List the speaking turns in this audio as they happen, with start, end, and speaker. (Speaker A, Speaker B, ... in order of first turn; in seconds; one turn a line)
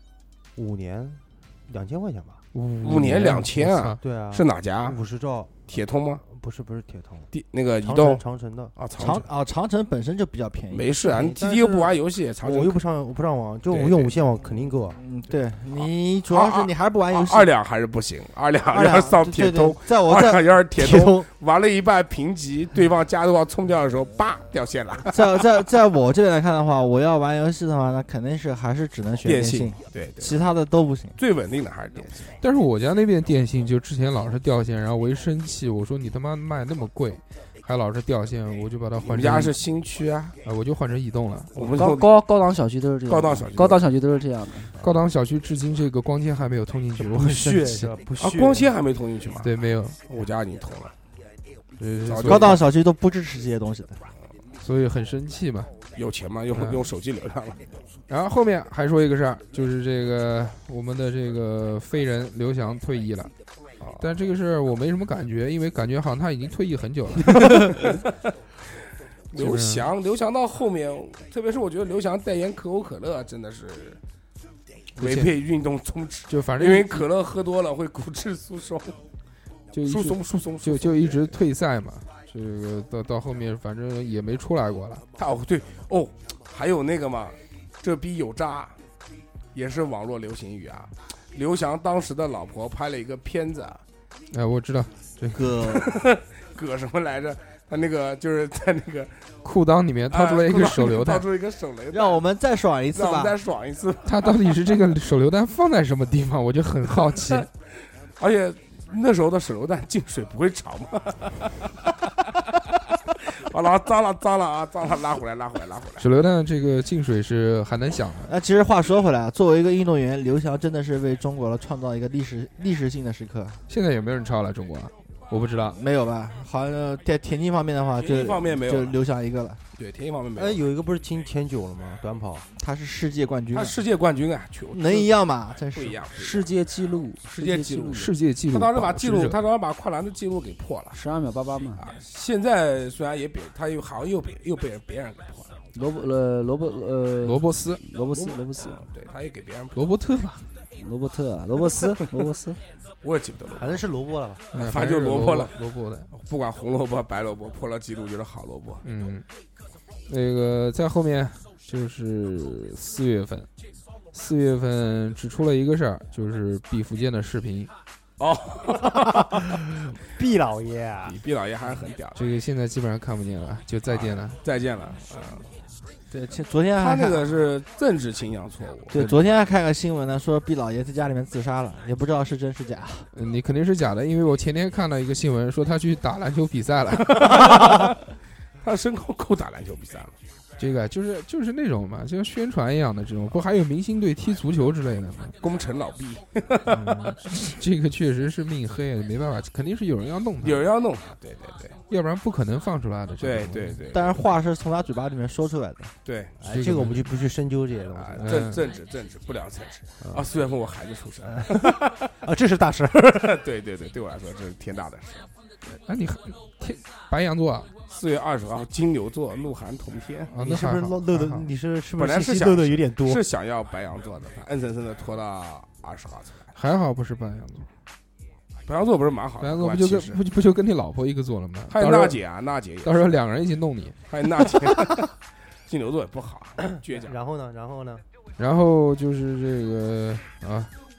Speaker A: 0.6-2.4
Speaker B: 2.5-4.0
Speaker C: 2.8-5.0
Speaker A: 4.0-8.7
Speaker C: 5.7-6.2
Speaker C: 7.3-8.2
Speaker C: 8.7-9.3
Speaker D: 9.0-10.9
Speaker C: 10.7-12.8
Speaker A: 11.1-11.9
Speaker A: 12.4-15.0
Speaker C: 13.7-14.1
Speaker D: 15.0-17.5
Speaker C: 15.7-25.6
Speaker D: 18.7-21.2
Speaker D: 25.1-31.2
Speaker C: 29.2-30.4
Speaker C: 31.2-32.3
Speaker B: 32.4-39.5
Speaker C: 39.0-40.4
Speaker B: 40.4-41.7
Speaker C: 41.5-42.1
Speaker E: 41.6-44.7
Speaker C: 43.1-43.8
Speaker B: 44.8-47.9
Speaker A: 47.0-48.7
Speaker C: 48.2-49.5
Speaker B: 49.4-50.0
Speaker C: 50.1-50.9
Speaker B: 51.8-52.6
Speaker C: 52.0-52.6
Speaker D: 52.2-54.0
Speaker B: 54.6-55.8
Speaker C: 55.9-57.8
Speaker B: 56.5-56.9
Speaker B: 58.1-63.3
Speaker C: 63.8-64.0
Speaker B: 64.0-67.9
Speaker C: 69.3-74.0
Speaker B: 69.3-69.9
Speaker C: 75.0-79.0
Speaker B: 75.0-75.3
Speaker B: 76.3-77.1
Speaker B: 79.7-85.0
Speaker C: 79.8-81.4
Speaker C: 85.2-88.8
Speaker C: 89.5-93.8
Speaker B: 94.3-95.6
Speaker D: 95.3-96.0
Speaker C: 95.6-99.1
Speaker B: 99.4-101.3
Speaker C: 100.1-102.2
Speaker D: 101.9-103.3
Speaker C: 102.9-104.7
Speaker B: 104.0-107.5
Speaker C: 108.2-112.2
Speaker C: 113.1-116.1
Speaker B: 116.0-118.3
Speaker D: 118.3-123.6
Speaker B: 123.7-125.8
Speaker D: 125.7-129.6
Speaker C: 128.0-129.0
Speaker C: 129.8-130.6
Speaker A: 130.3-132.5
Speaker D: 132.6-133.8
Speaker C: 133.5-136.5
Speaker D: 134.7-136.0
Speaker E: 136.1-138.1
Speaker C: 137.4-141.0
Speaker B: 137.9-139.4
Speaker E: 140.9-141.8
Speaker C: 141.8-145.5
Speaker E: 145.7-148.8
Speaker B: 147.2-147.8
Speaker C: 148.1-149.8
Speaker B: 149.7-150.5
Speaker E: 150.8-152.6
Speaker C: 153.0-153.8
Speaker A: 153.6-154.4
Speaker B: 154.5-156.1
Speaker C: 154.5-155.6
Speaker C: 156.1-158.8
Speaker B: 158.8-159.2
Speaker B: 160.1-163.5
Speaker B: 164.1-167.7
Speaker C: 168.2-169.4
Speaker A: 168.7-171.2
Speaker C: 171.1-172.2
Speaker B: 172.1-174.4
Speaker C: 173.9-175.6
Speaker D: 176.1-177.3
Speaker C: 176.8-179.2
Speaker D: 178.9-183.1
Speaker B: 183.1-187.9
Speaker C: 187.1-188.0
Speaker C: 188.6-190.1
Speaker B: 190.6-195.3
Speaker C: 195.4-197.5
Speaker B: 196.7-200.6
Speaker C: 200.4-201.8
Speaker B: 201.9-203.8
Speaker C: 203.2-204.2
Speaker D: 203.9-205.9
Speaker C: 206.0-206.3
Speaker A: 206.4-208.4
Speaker B: 206.5-207.1
Speaker C: 207.9-212.1
Speaker B: 208.2-208.7
Speaker A: 211.2-213.4
Speaker C: 213.2-215.3
Speaker B: 215.7-217.7
Speaker C: 217.9-220.3
Speaker B: 220.3-221.5
Speaker A: 220.4-223.2
Speaker C: 222.0-226.5
Speaker B: 226.5-227.7
Speaker C: 228.7-230.2
Speaker B: 229.4-232.2
Speaker C: 231.7-233.2
Speaker B: 232.8-234.0
Speaker C: 234.1-235.1
Speaker C: 235.7-237.1
Speaker A: 236.8-238.0
Speaker B: 238.4-240.7